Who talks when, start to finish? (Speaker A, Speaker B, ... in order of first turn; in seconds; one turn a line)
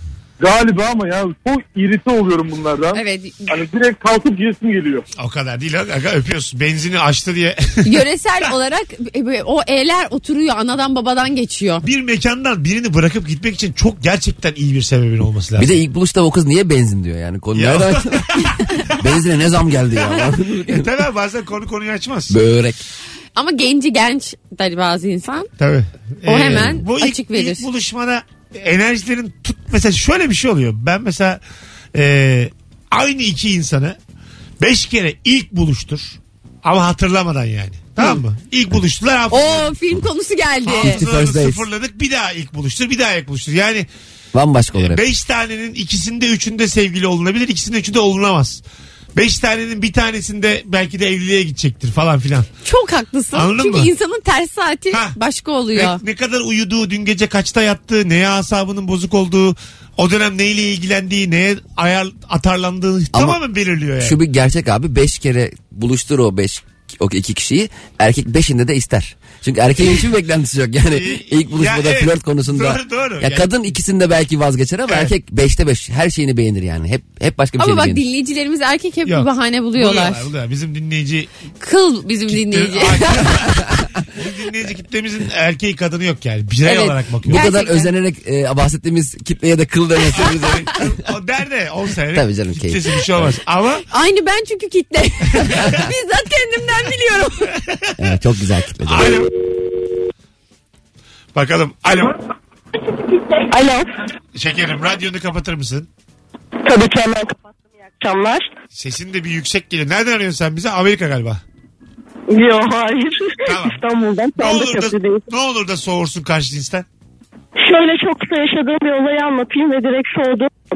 Speaker A: 0.4-5.0
Speaker B: 2.9-3.5
Speaker C: 5.2-8.0
Speaker B: 7.8-11.8
Speaker C: 11.8-15.8
Speaker D: 15.6-18.3
Speaker C: 17.5-19.1
Speaker D: 19.0-20.9
Speaker C: 20.0-22.4
Speaker D: 22.3-22.8
Speaker B: 23.4-25.5
Speaker C: 25.6-31.4
Speaker B: 26.2-27.6
Speaker D: 26.3-26.8
Speaker C: 31.9-34.0
Speaker C: 34.6-39.7
Speaker B: 39.3-41.0
Speaker C: 40.7-43.9
Speaker D: 40.8-41.6
Speaker D: 44.3-45.0
Speaker C: 44.8-48.6
Speaker C: 49.1-52.5
Speaker B: 52.6-56.0
Speaker C: 53.3-53.9
Speaker C: 54.9-55.2
Speaker C: 55.7-64.2
Speaker D: 63.1-63.4
Speaker D: 64.0-78.0
Speaker C: 70.9-73.5
Speaker C: 74.9-75.1
Speaker B: 77.6-80.3
Speaker C: 79.1-81.3
Speaker B: 81.6-83.5
Speaker C: 82.3-87.5
Speaker B: 86.7-87.9
Speaker D: 87.2-90.9
Speaker C: 90.2-93.8
Speaker D: 92.1-93.4
Speaker B: 93.9-97.5
Speaker D: 98.0-99.2
Speaker C: 98.8-99.3
Speaker C: 101.3-102.2
Speaker E: 103.5-103.9
Speaker C: 104.3-105.9
Speaker E: 106.6-107.3
Speaker E: 108.0-108.5
Speaker C: 108.7-111.4
Speaker E: 112.3-115.2
Speaker C: 113.5-113.8
Speaker C: 114.4-116.8
Speaker E: 117.6-120.5